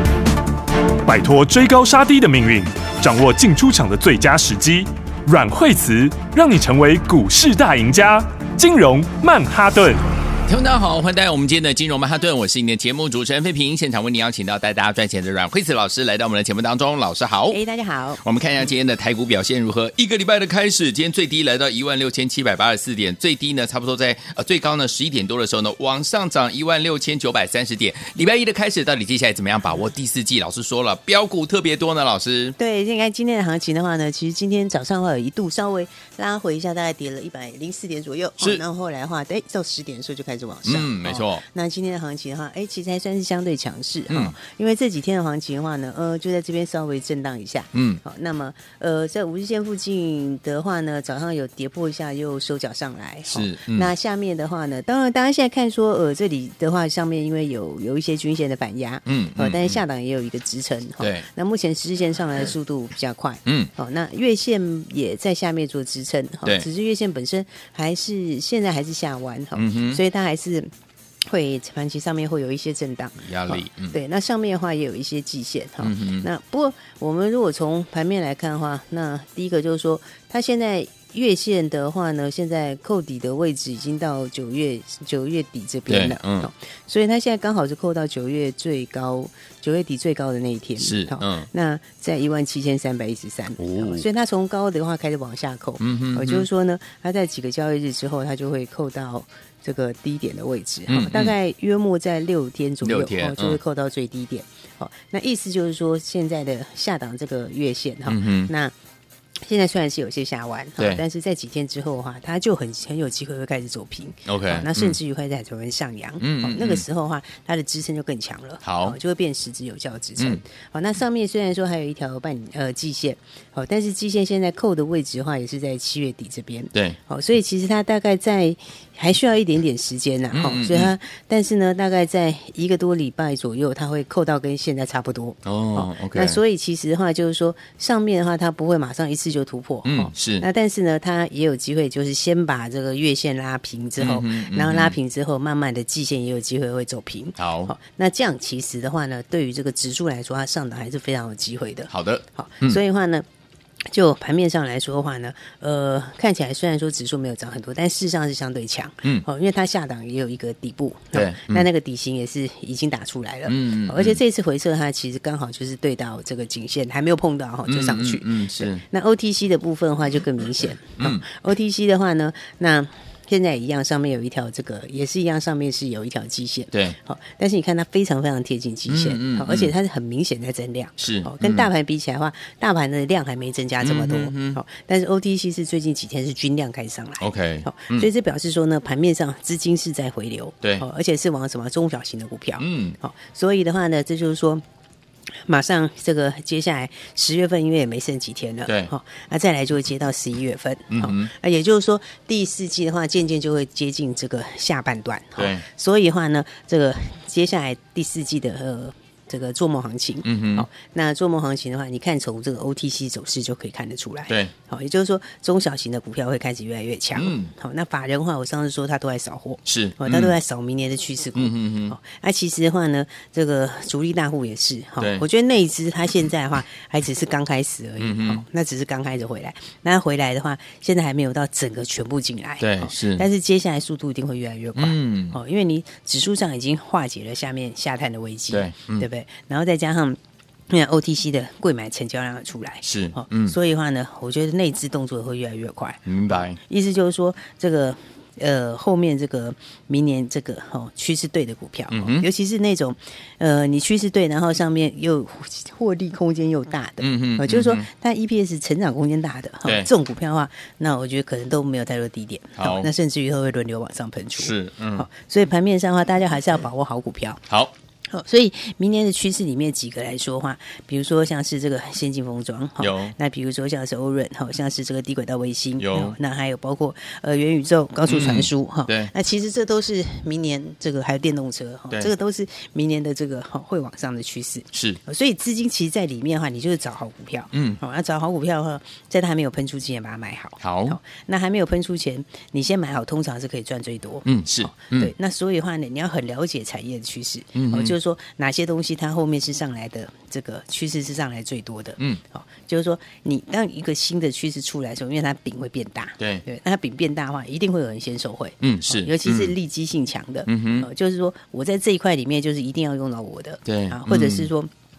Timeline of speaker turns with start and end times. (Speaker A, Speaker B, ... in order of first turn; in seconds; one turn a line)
Speaker A: 1.0-10.0
Speaker B: 10.4-17.6
Speaker C: 17.5-18.2
Speaker B: 18.2-32.5
Speaker C: 32.6-70.7
Speaker B: 40.6-41.4
Speaker B: 44.1-44.3
Speaker B: 47.7-48.0
Speaker B: 53.3-53.9
Speaker B: 59.0-59.8
Speaker B: 61.0-61.2
Speaker B: 69.5-70.0
Speaker C: 71.3-108.7
Speaker B: 73.2-74.0
Speaker B: 75.8-76.3
Speaker B: 85.9-86.5
Speaker B: 90.8-91.5
Speaker B: 93.6-94.0
Speaker B: 95.8-96.5
Speaker B: 100.9-101.3
Speaker B: 102.8-103.6
Speaker B: 108.1-108.5
Speaker C: 109.4-153.2
Speaker B: 114.2-115.0
Speaker B: 116.2-116.8
Speaker B: 118.6-119.0
Speaker B: 130.3-130.9
Speaker B: 135.4-136.4
Speaker B: 139.8-140.4
Speaker B: 144.0-144.9
Speaker B: 147.4-147.7
Speaker B: 151.9-152.8
Speaker C: 153.9-194.6
Speaker B: 161.1-161.7
Speaker B: 163.5-164.2
Speaker B: 167.7-168.8
Speaker B: 171.0-171.2
Speaker B: 176.7-177.0
Speaker B: 178.9-179.7
Speaker B: 181.0-181.7
Speaker B: 183.8-184.6
Speaker B: 187.2-188.1
Speaker B: 192.6-193.0
Speaker C: 195.4-240.2
Speaker B: 198.7-198.9
Speaker B: 200.9-201.3
Speaker B: 205.4-205.6
Speaker B: 210.2-210.7
Speaker B: 217.2-217.5
Speaker B: 219.7-220.3
Speaker B: 221.3-221.9
Speaker B: 225.0-225.2
Speaker B: 228.0-228.4
Speaker B: 232.6-233.2
Speaker B: 234.8-235.3
Speaker B: 238.5-239.0
Speaker C: 240.7-267.4
Speaker B: 242.8-243.6
Speaker B: 246.1-246.6
Speaker B: 251.9-252.2
Speaker B: 257.0-257.8
Speaker B: 262.6-262.9
Speaker B: 264.4-265.1
Speaker C: 268.1-314.7
Speaker B: 272.8-273.1
Speaker B: 275.8-276.1
Speaker B: 278.1-279.1
Speaker B: 284.7-285.0
Speaker B: 287.5-287.8
Speaker B: 290.6-291.0
Speaker B: 294.2-295.1
Speaker B: 297.5-297.9
Speaker B: 308.6-309.5
Speaker B: 310.5-310.9
Speaker B: 313.6-314.5